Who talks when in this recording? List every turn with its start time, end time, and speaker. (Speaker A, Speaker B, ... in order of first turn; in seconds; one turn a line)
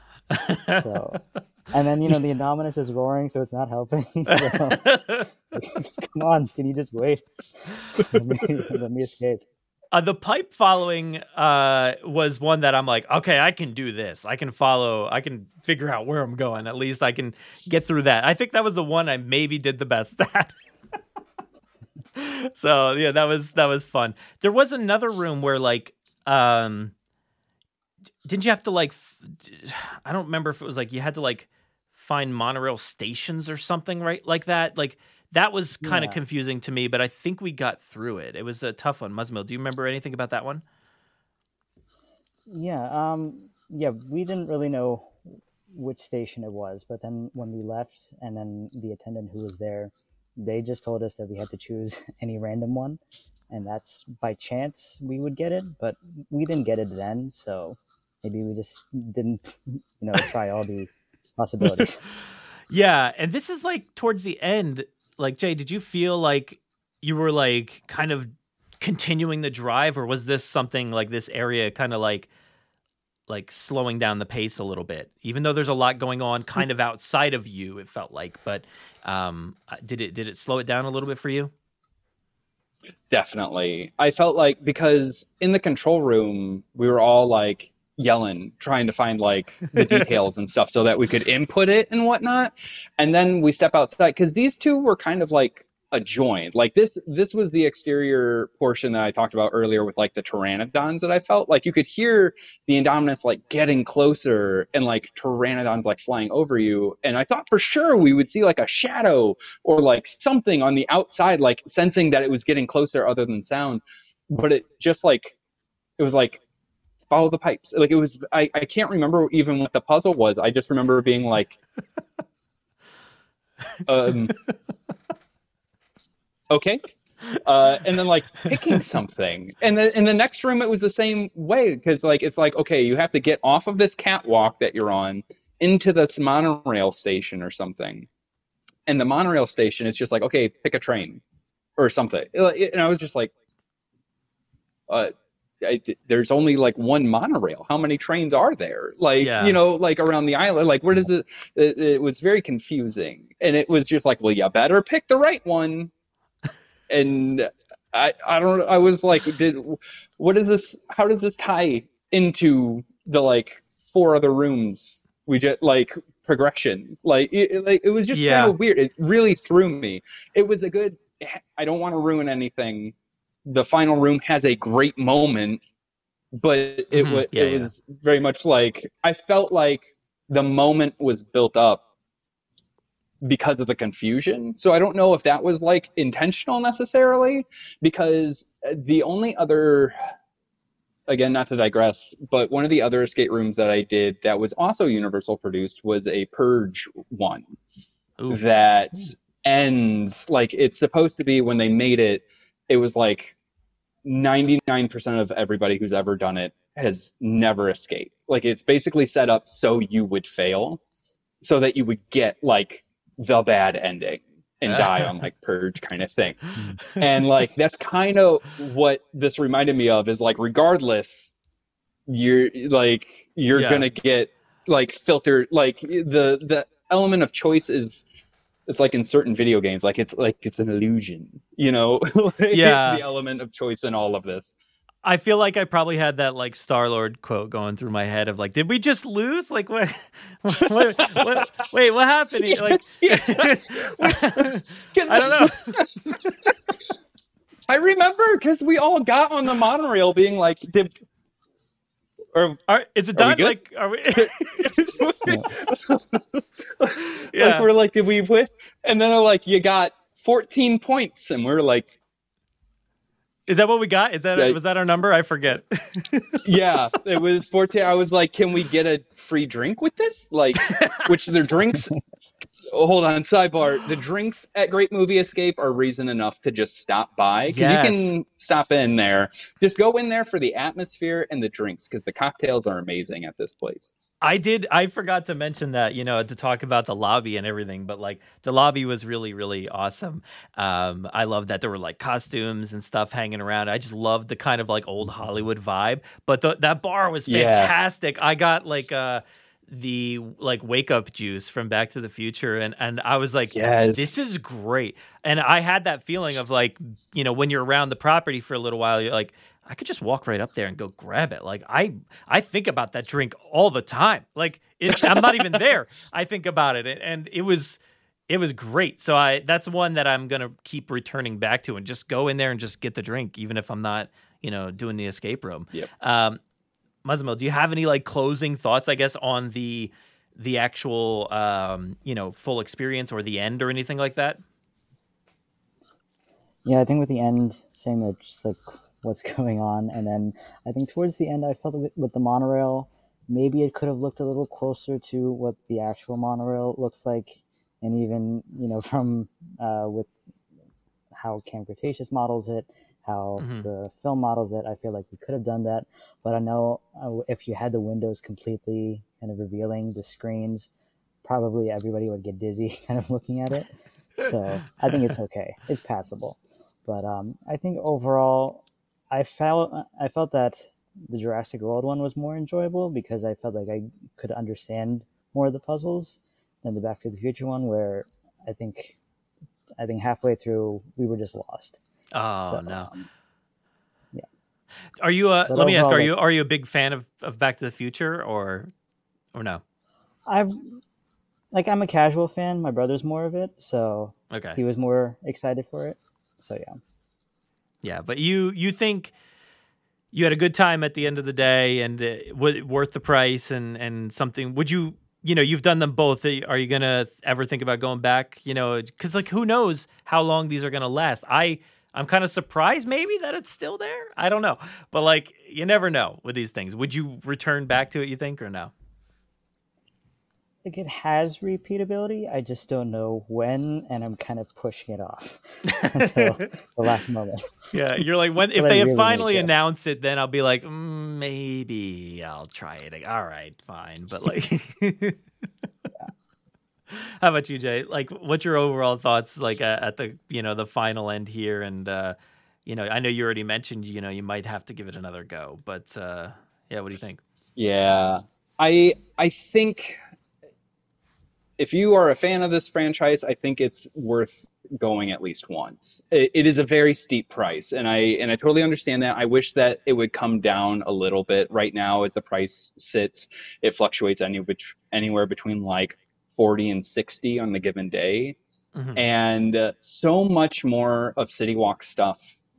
Speaker A: 0.3-0.8
Speaker B: 0.7-9.4
Speaker A: 4.3-5.2
Speaker A: 9.9-20.6
Speaker A: 22.1-26.9
Speaker A: 28.2-40.6
Speaker B: 35.8-36.2
Speaker B: 42.5-62.0
Speaker A: 62.7-72.3
Speaker A: 73.3-81.5
Speaker C: 83.1-115.3
Speaker A: 89.7-90.0
Speaker C: 116.0-116.4
Speaker C: 117.1-121.6
Speaker C: 123.8-124.3
Speaker C: 126.5-138.1
Speaker C: 138.9-141.2
Speaker C: 141.8-143.3
Speaker C: 144.9-155.9
Speaker A: 149.2-149.6
Speaker C: 156.9-172.9
Speaker A: 168.1-168.6
Speaker C: 173.4-175.6
Speaker C: 176.3-181.8
Speaker A: 176.9-177.7
Speaker C: 183.2-189.9
Speaker C: 191.1-197.5
Speaker C: 198.3-203.3
Speaker C: 204.0-210.8
Speaker C: 211.4-221.3
Speaker A: 214.6-215.1
Speaker C: 222.1-228.0
Speaker A: 223.5-223.9
Speaker C: 228.7-234.5
Speaker A: 232.5-233.0
Speaker A: 235.0-246.3
Speaker C: 241.0-241.4
Speaker C: 242.4-246.5
Speaker C: 247.7-251.0
Speaker C: 252.3-252.6
Speaker A: 252.7-254.7
Speaker C: 253.1-253.6
Speaker C: 254.1-261.9
Speaker B: 255.2-255.5
Speaker A: 257.2-257.7
Speaker A: 263.5-266.4
Speaker C: 266.4-271.9
Speaker A: 270.7-271.0
Speaker C: 272.7-283.9
Speaker A: 277.5-278.1
Speaker A: 284.2-326.4
Speaker C: 297.3-297.7
Speaker C: 303.5-304.3
Speaker A: 327.0-334.4
Speaker B: 336.6-350.1
Speaker B: 351.2-360.7
Speaker A: 353.4-353.7
Speaker B: 361.2-379.0
Speaker B: 379.8-381.8
Speaker A: 382.1-382.9
Speaker B: 382.4-383.1
Speaker A: 385.0-388.7
Speaker B: 385.5-386.1
Speaker A: 389.3-389.6
Speaker B: 390.3-390.8
Speaker B: 391.5-396.8
Speaker A: 394.3-394.6
Speaker A: 397.8-399.1
Speaker A: 400.1-418.7
Speaker B: 420.6-427.4
Speaker A: 425.7-426.4
Speaker A: 427.7-435.2
Speaker B: 428.5-429.5
Speaker A: 436.9-447.2
Speaker C: 447.6-450.0
Speaker C: 451.6-468.4
Speaker A: 468.8-469.0
Speaker C: 468.9-472.4